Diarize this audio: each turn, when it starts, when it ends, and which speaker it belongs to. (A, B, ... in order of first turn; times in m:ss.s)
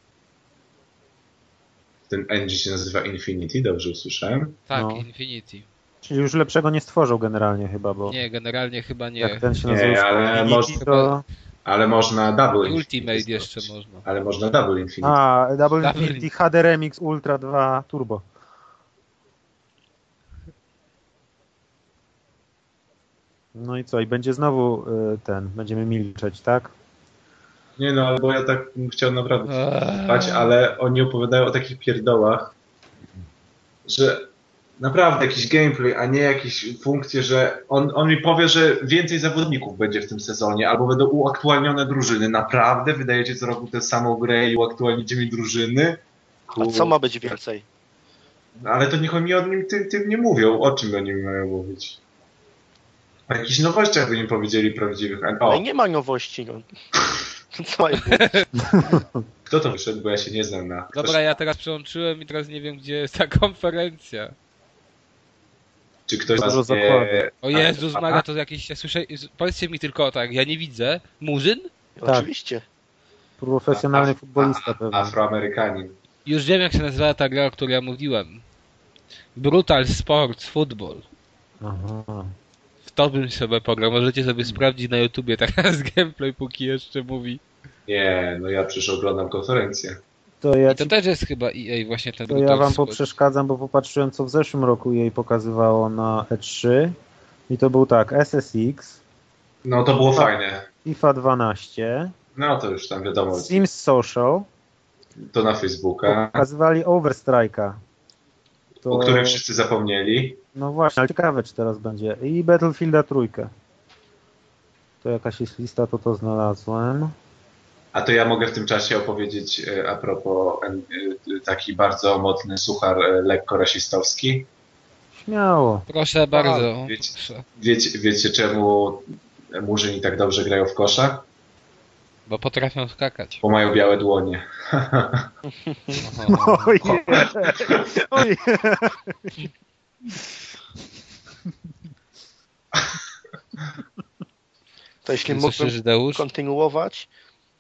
0:02.1-0:04.6 A
0:04.7-0:05.7 B
0:04.7-0:05.0 C
0:06.0-0:08.2 C
0:08.1-0:09.5 B
0:09.2-0:11.2 C
0:09.7-0:10.9 A
0:10.8-0:11.1 B
0:11.6-0:15.2 A
0:12.6-0:14.0 B
0:15.0-0:18.2 C
0:15.8-0:16.3 B
0:23.5-0:26.7 C
0:27.8-0:32.5 A
0:29.5-0:30.5 B
0:33.8-0:34.3 A
0:34.8-0:47.3 A
0:46.6-0:47.6 D
0:48.6-0:52.0 A
0:53.3-0:55.6 A
0:55.4-0:56.7 D
0:57.5-0:58.4 D
0:58.0-0:58.4 B
0:58.6-0:59.2 C
0:59.5-1:01.2 A
1:00.9-1:04.3 B
1:06.1-1:08.2 A
1:06.3-1:07.2 C
1:07.4-1:11.7 B
1:12.0-1:12.6 D
1:13.4-1:15.1 C
1:13.7-1:16.0 A
1:16.2-1:18.4 B
1:19.4-1:21.0 B
1:21.6-1:22.3 C
1:22.8-1:27.4 B
1:27.9-1:30.0 A
1:30.4-1:30.9 C
1:30.7-1:33.1 B
1:32.3-1:37.0 C
1:37.5-1:39.0 C
1:39.6-1:40.6 A
1:40.8-1:42.1 C
1:42.4-1:43.6 A
1:43.3-1:44.5 C
1:45.2-1:46.4 A
1:46.1-1:47.8 C
1:48.8-1:49.4 C
1:48.8-1:50.4 A
1:50.5-1:53.5 C
1:55.0-1:57.1 C
1:57.9-2:04.5 A
2:05.1-2:05.8 C
2:05.9-2:07.4 B
2:06.3-2:11.2 A
2:12.3-2:13.4 B
2:13.4-2:15.3 A
2:15.6-2:16.0 D
2:16.0-2:16.7 B
2:16.3-2:19.4 C
2:16.8-2:18.0 A
2:25.0-2:27.1 D
2:25.2-2:26.2 B